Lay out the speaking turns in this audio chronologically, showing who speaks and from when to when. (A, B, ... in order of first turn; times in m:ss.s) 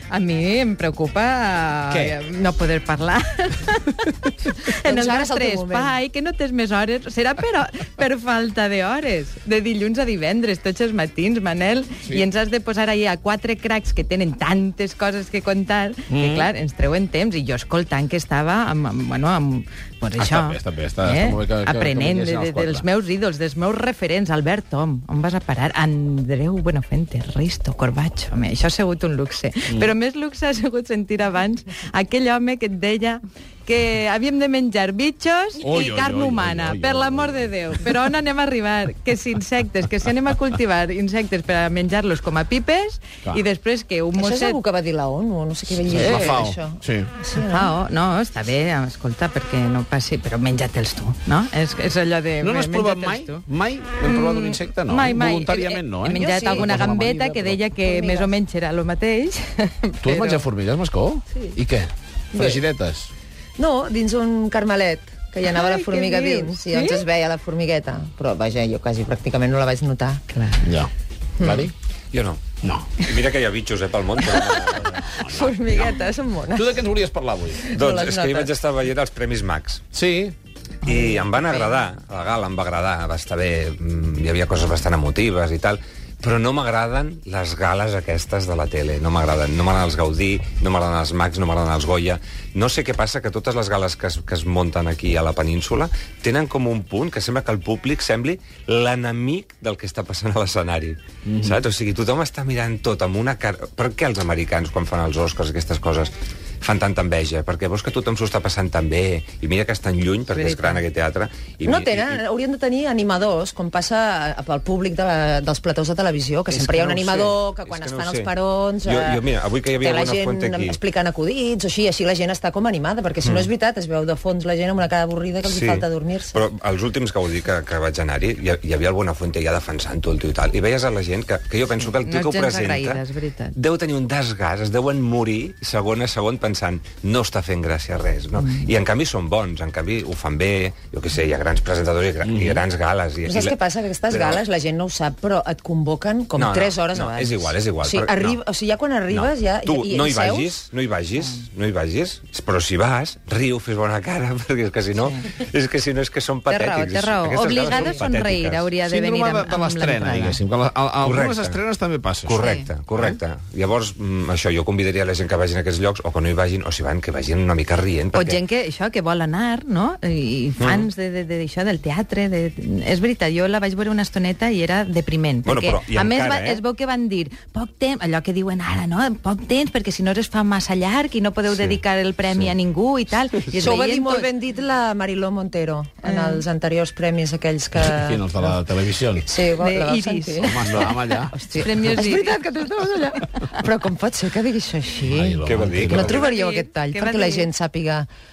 0:00.1-0:44.6 A
0:01.9-0:02.2 B
0:04.8-0:06.0 C
0:16.1-0:16.5 B
0:20.2-0:22.8 B
0:35.6-0:37.5 B
0:44.2-0:47.7 C
0:45.9-0:47.1 B
0:47.4-0:53.4 A
0:52.4-0:57.2 B
0:54.0-1:00.5 A
0:56.1-0:58.4 C
1:00.0-1:03.1 B
1:02.3-1:02.6 C
1:03.6-1:10.2 C
1:05.5-1:07.0 A
1:10.3-1:10.7 A
1:10.6-1:10.9 B
1:11.4-1:11.7 C
1:11.4-1:11.7 B
1:12.1-1:15.0 D
1:12.6-1:13.0 B
1:14.8-1:16.0 B
1:15.1-1:16.9 C
1:16.6-1:17.7 B
1:17.6-1:18.5 C
1:17.7-1:19.8 D
1:19.9-1:20.4 B
1:20.9-1:21.4 A
1:20.9-1:52.2 D
1:41.3-1:41.6 B
1:50.3-1:50.8 A
1:51.6-2:06.4 C
1:56.5-1:57.3 B
1:57.5-1:58.3 D
1:58.8-2:00.8 D
2:03.2-2:03.5 D
2:05.4-2:13.0 D
2:12.0-2:13.6 A
2:13.6-2:23.6 D
2:22.3-2:22.6 B
2:23.2-2:30.6 C
2:24.1-2:24.4 D
2:26.4-2:28.4 D
2:29.1-2:38.7 D
2:36.5-2:37.0 C
2:36.7-2:40.4 A
2:37.7-2:38.0 C
2:38.8-2:42.4 B
2:41.0-2:41.6 D
2:42.2-2:48.4 D
2:42.4-2:42.7 A
2:48.1-3:04.3 A
2:50.6-2:50.9 D
2:55.4-2:56.6 D
3:01.5-3:01.8 D
3:03.5-3:08.5 C
3:06.0-3:06.4 A
3:07.8-3:09.3 B
3:09.2-3:18.1 C
3:09.6-3:10.8 A
3:10.4-3:11.3 B
3:11.5-3:12.4 A
3:15.1-3:16.2 B
3:15.4-3:16.3 D
3:16.0-3:17.5 A